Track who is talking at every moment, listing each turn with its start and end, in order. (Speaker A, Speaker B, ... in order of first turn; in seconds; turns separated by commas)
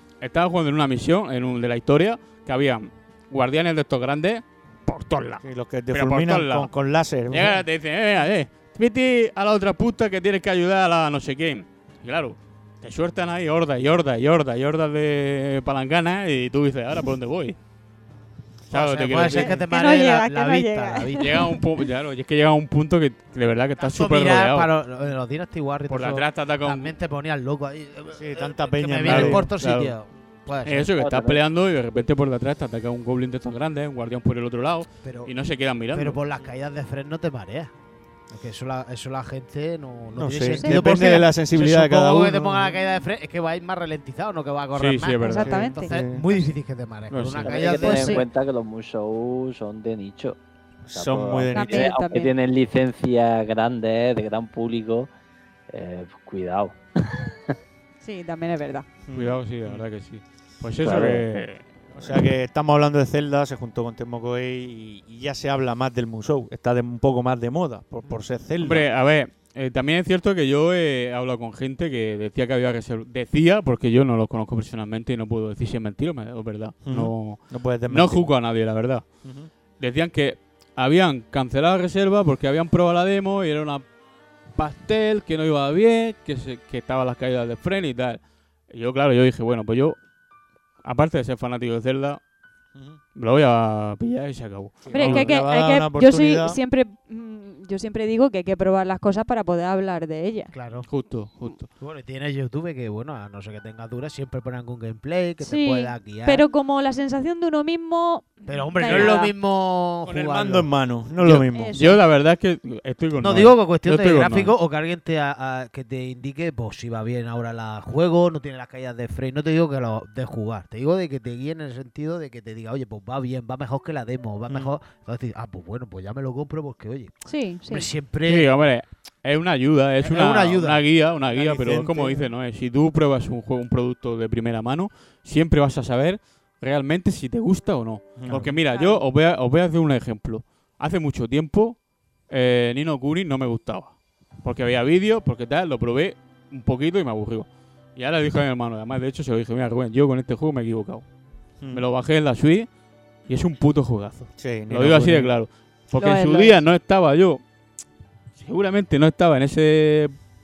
Speaker A: 0.2-6.7, Speaker B: 5.4-7.6, Speaker A: 7.3-17.6, Speaker A: 18.7-19.6, Speaker C: 18.7-21.5, Speaker D: 19.3-21.5, Speaker A: 21.2-24.7, Speaker C: 23.8-30.9, Speaker A: 25.9-26.9, Speaker B: 28.1-29.5, Speaker A: 29.0-29.9, Speaker A: 30.6-36.2, Speaker E: 30.9-31.4, Speaker C: 35.0-35.3, Speaker C: 35.9-37.7, Speaker C: 38.3-48.3, Speaker B: 40.1-42.8, Speaker D: 40.5-40.9, Speaker A: 44.7-45.5, Speaker D: 45.2-45.9, Speaker B: 45.4-46.2, Speaker A: 47.1-47.8, Speaker E: 47.4-50.4, Speaker D: 47.8-48.2, Speaker B: 50.9-51.9, Speaker E: 50.9-55.1, Speaker D: 51.5-52.3, Speaker E: 55.7-56.8, Speaker D: 58.0-58.9, Speaker B: 59.1-59.8, Speaker A: 59.1-61.6, Speaker E: 60.8-61.2, Speaker B: 62.0-68.9, Speaker A: 68.6-79.0, Speaker B: 76.8-78.3, Speaker B: 79.2-79.5, Speaker A: 79.8-83.8, Speaker A: 84.5-90.0, Speaker A: 90.8-92.2, Speaker A: 93.1-95.2, Speaker B: 94.8-96.6, Speaker D: 94.9-100.5, Speaker C: 100.5-100.9, Speaker A: 100.9-101.7, Speaker C: 101.8-106.5, Speaker D: 105.4-109.3, Speaker C: 108.5-110.7, Speaker B: 108.9-109.2, Speaker B: 110.0-111.9, Speaker A: 111.2-114.5, Speaker D: 111.5-112.0, Speaker C: 113.2-127.1, Speaker D: 127.3-127.9, Speaker C: 127.7-128.5, Speaker A: 128.2-151.0, Speaker C: 130.0-132.2, Speaker B: 138.2-138.5, Speaker D: 138.7-139.0, Speaker B: 151.6-151.8, Speaker A: 151.7-152.7, Speaker A: 153.3-157.4, Speaker B: 154.4-155.4, Speaker D: 155.9-156.6, Speaker A: 158.4-160.1